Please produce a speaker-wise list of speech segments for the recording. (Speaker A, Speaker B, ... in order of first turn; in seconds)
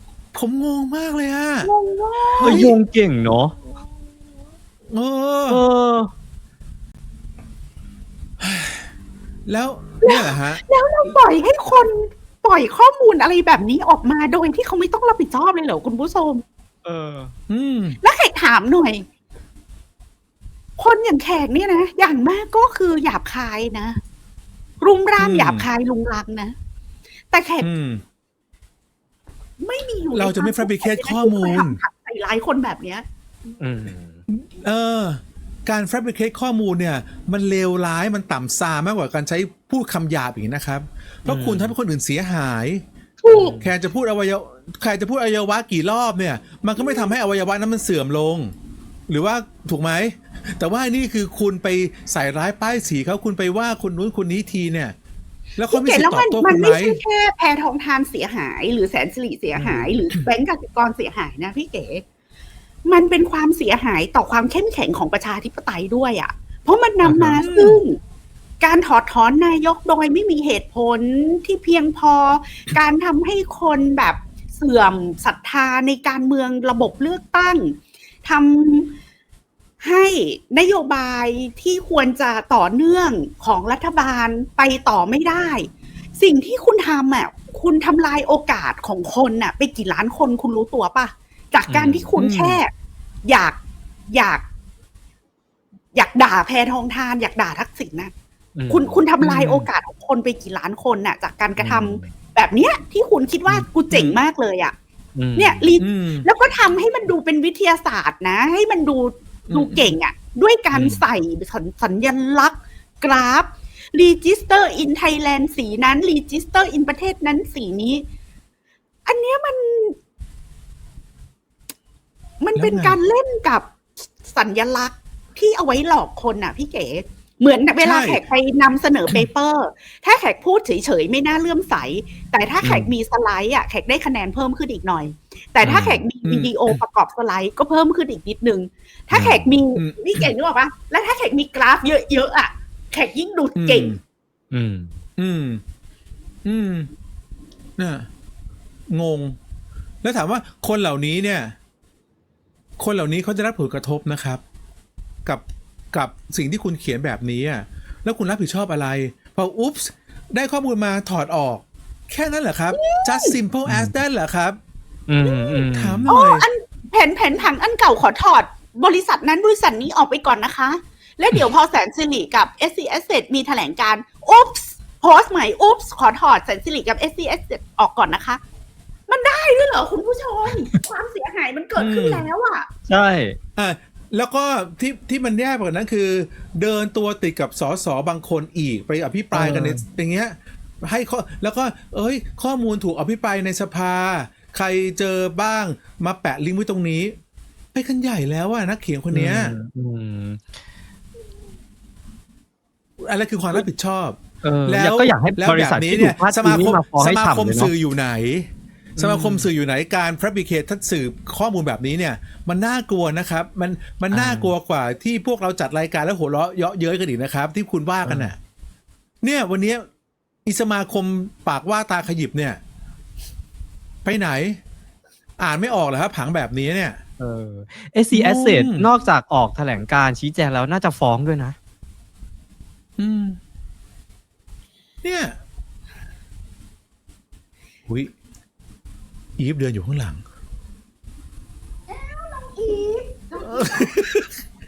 Speaker A: 0.3-1.7, 2.4-2.7, 4.9-5.6, 8.4-8.8, 9.5-10.6, 17.5-18.0, 25.2-25.7, 27.6-28.0, 30.1-31.8, 34.3-48.5, 49.1-54.9, 55.6-57.0, 67.4-67.8, 92.2-92.6, 105.8-106.3, 109.5-109.9, 122.5-123.0, 127.8-128.2, 136.2-136.8, 143.6-144.0, 145.2-145.6, 146.4-146.9, 147.8-148.1, 148.9-149.3, 150.0-151.5, 152.8-154.4, 155.2-164.6, 165.7-166.4, 181.8-182.2, 183.6-197.1, 197.7-199.5, 203.0-218.4, 219.2-219.8, 220.4-222.6, 224.0-224.6, 225.4-227.0, 228.1-228.9, 233.0-233.4, 235.0-235.4, 239.4-240.2, 243.4-244.3
Speaker B: 1.6-2.7, 10.0-16.4, 18.0-19.0, 20.8-24.0, 24.8-26.5, 27.3-27.7, 29.6-33.0, 46.8-47.1, 55.7-62.0, 62.9-68.0, 68.6-78.9, 79.8-92.7, 93.2-93.6, 94.1-94.4, 95.9-98.1, 98.7-104.7, 105.3-118.0, 119.0-119.9, 122.4-123.7, 124.2-143.9, 162.7-163.4, 165.2-178.4, 179.1-182.7, 241.9-243.9
Speaker C: 2.4-3.5, 5.5-6.1, 16.8-17.3, 33.6-34.2, 41.2-41.7, 43.3-43.7, 59.5-60.0, 67.0-67.4, 91.7-92.1, 98.5-99.7, 101.6-102.1, 105.2-105.8, 110.7-111.0, 135.6-136.0, 139.1-139.6, 144.5-144.9, 163.7-163.9, 165.1-166.1, 182.9-183.4, 189.3-189.8, 199.1-200.5, 204.4-207.7, 208.9-209.5, 214.1-214.5, 218.0-218.3, 227.2-231.6